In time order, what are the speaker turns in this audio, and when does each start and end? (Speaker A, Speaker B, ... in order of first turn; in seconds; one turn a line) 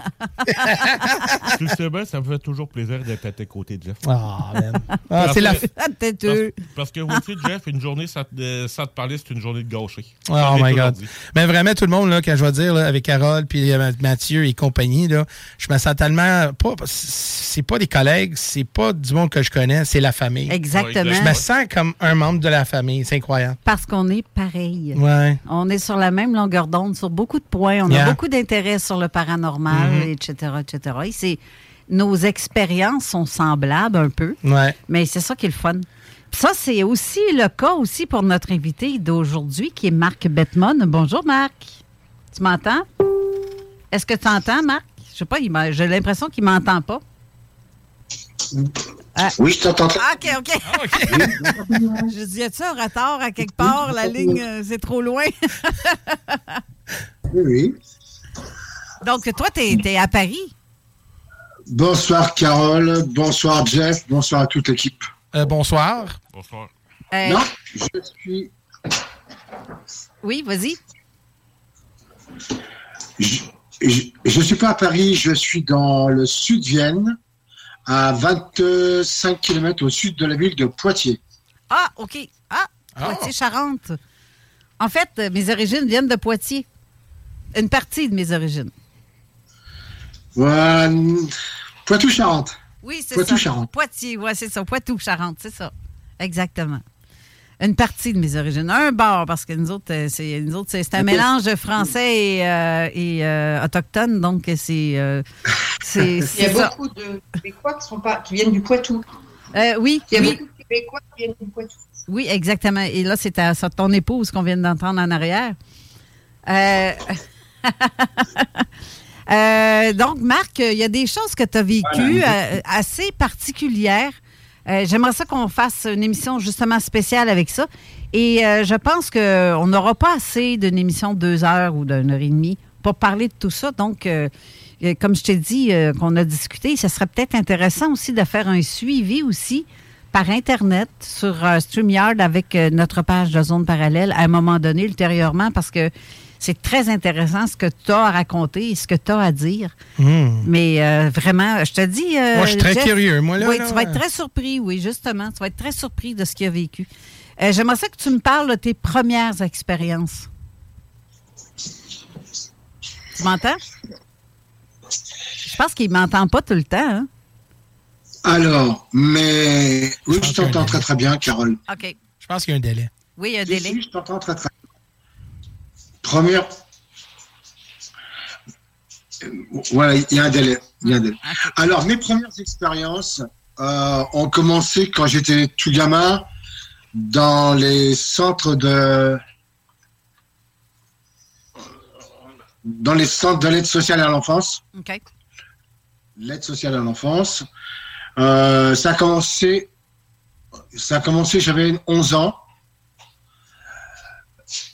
Speaker A: 0.5-1.5
Speaker B: 1.5-4.0
Speaker A: 4.0-5.6
Speaker B: 5.2-5.7
Speaker C: 5.3-6.5
Speaker B: 6.2-11.1
Speaker A: 10.3-20.6
Speaker C: 20.5-21.4
Speaker B: 20.7-21.5
Speaker A: 21.2-23.6
Speaker C: 23.6-41.8
Speaker A: 24.9-25.4
Speaker A: 27.9-28.2
Speaker A: 29.7-30.1
Speaker A: 34.4-34.8
Speaker C: 42.3-42.8
Speaker C: 43.9-47.0
Speaker D: 49.3-50.2
Speaker C: 50.0-51.5
Speaker A: 50.7-51.3
Speaker D: 51.1-52.1
Speaker C: 52.0-56.6
Speaker D: 53.4-54.4
Speaker D: 57.3-57.8
Speaker C: 59.0-60.5
Speaker D: 61.7-65.0
Speaker A: 65.3-66.2
Speaker B: 66.3-66.7
Speaker C: 67.1-67.4
Speaker D: 67.2-68.5
Speaker C: 70.2-70.8
Speaker D: 73.2-77.2
Speaker D: 77.8-81.2
Speaker C: 81.7-84.0
Speaker A: 83.0-83.3
Speaker C: 84.8-86.7
Speaker C: 87.5-88.7
Speaker D: 90.3-91.3
Speaker D: 91.8-92.5
Speaker C: 92.8-96.8
Speaker D: 93.1-93.7
Speaker C: 97.6-105.2
Speaker D: 101.0-101.2
Speaker C: 105.8-106.7
Speaker E: 106.3-109.0
Speaker C: 109.5-110.4
Speaker E: 110.1-111.7
Speaker C: 112.1-115.5
Speaker C: 116.5-118.6
Speaker C: 119.3-149.7
Speaker D: 121.8-122.3
Speaker A: 150.0-150.5
Speaker C: 150.4-160.3
Speaker A: 152.3-154.0
Speaker C: 163.2-163.6
Speaker C: 165.4-167.1
Speaker D: 168.2-171.6
Speaker A: 170.2-170.8
Speaker C: 171.7-171.9
Speaker A: 172.2-172.9
Speaker C: 173.2-173.8
Speaker D: 173.5-174.5
Speaker D: 176.0-176.5
Speaker D: 179.3-186.3
Speaker C: 180.8-181.5
Speaker D: 186.9-189.2
Speaker D: 192.6-194.6
Speaker C: 194.7-195.0
Speaker D: 196.2-197.4
Speaker D: 198.2-199.7
Speaker D: 200.7-202.4